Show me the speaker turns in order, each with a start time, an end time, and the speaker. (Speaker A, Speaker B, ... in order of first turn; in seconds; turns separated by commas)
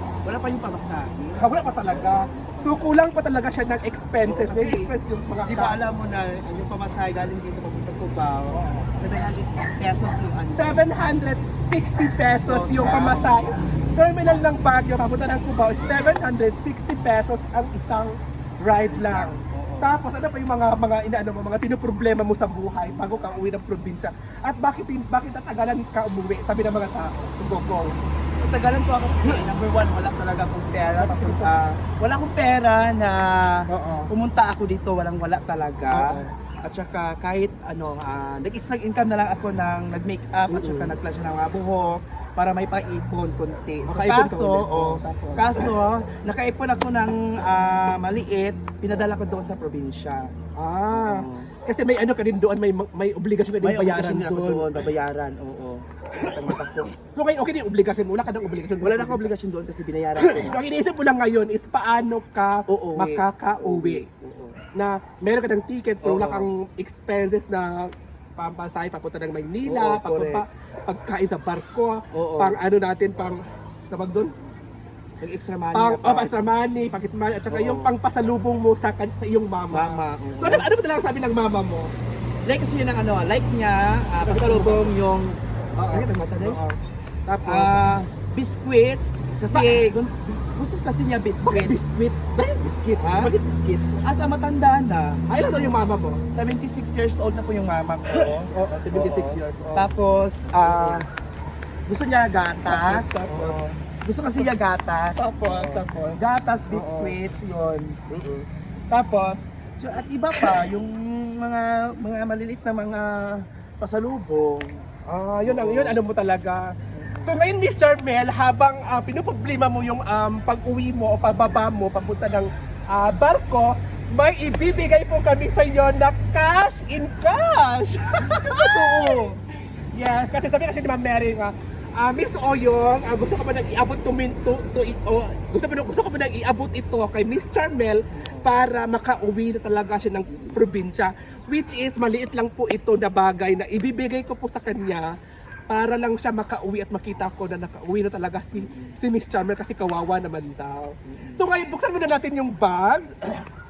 Speaker A: 0.2-3.0, Speaker B: 1.4-5.8, Speaker A: 4.2-4.9, Speaker A: 5.5-10.9, Speaker B: 8.5-8.9, Speaker B: 10.5-27.9, Speaker A: 12.4-13.5, Speaker A: 18.9-20.0, Speaker A: 28.4-50.3, Speaker B: 31.0-31.5, Speaker B: 33.7-34.1, Speaker B: 35.9-36.3, Speaker B: 40.5-41.0, Speaker B: 43.8-45.7, Speaker B: 50.6-54.7, Speaker A: 50.9-51.5, Speaker A: 53.6-56.9, Speaker B: 56.2-56.5, Speaker B: 57.1-59.3, Speaker A: 58.8-60.6, Speaker B: 60.2-64.1, Speaker A: 62.7-64.6, Speaker B: 64.7-74.3, Speaker A: 66.0-66.5, Speaker A: 69.6-70.5, Speaker A: 72.1-72.6, Speaker A: 75.2-76.4, Speaker B: 75.7-81.9, Speaker A: 77.5-77.9, Speaker A: 79.7-80.7, Speaker A: 82.4-86.6, Speaker B: 84.2-84.9, Speaker B: 85.8-87.9, Speaker A: 87.4-91.8, Speaker B: 89.5-89.8, Speaker B: 91.4-94.0, Speaker A: 93.0-95.8, Speaker B: 95.3-96.2, Speaker A: 96.3-101.1, Speaker B: 98.1-99.9, Speaker B: 100.6-101.0, Speaker A: 101.9-108.0, Speaker B: 102.7-103.7, Speaker B: 105.2-107.2, Speaker B: 108.1-109.4, Speaker A: 109.8-114.8, Speaker B: 110.3-110.7, Speaker B: 115.1-129.3, Speaker A: 115.4-116.0, Speaker A: 116.9-117.4, Speaker A: 128.3-129.4, Speaker B: 129.9-145.1, Speaker A: 138.2-138.5, Speaker B: 145.7-153.5, Speaker A: 148.6-149.0, Speaker A: 151.1-151.4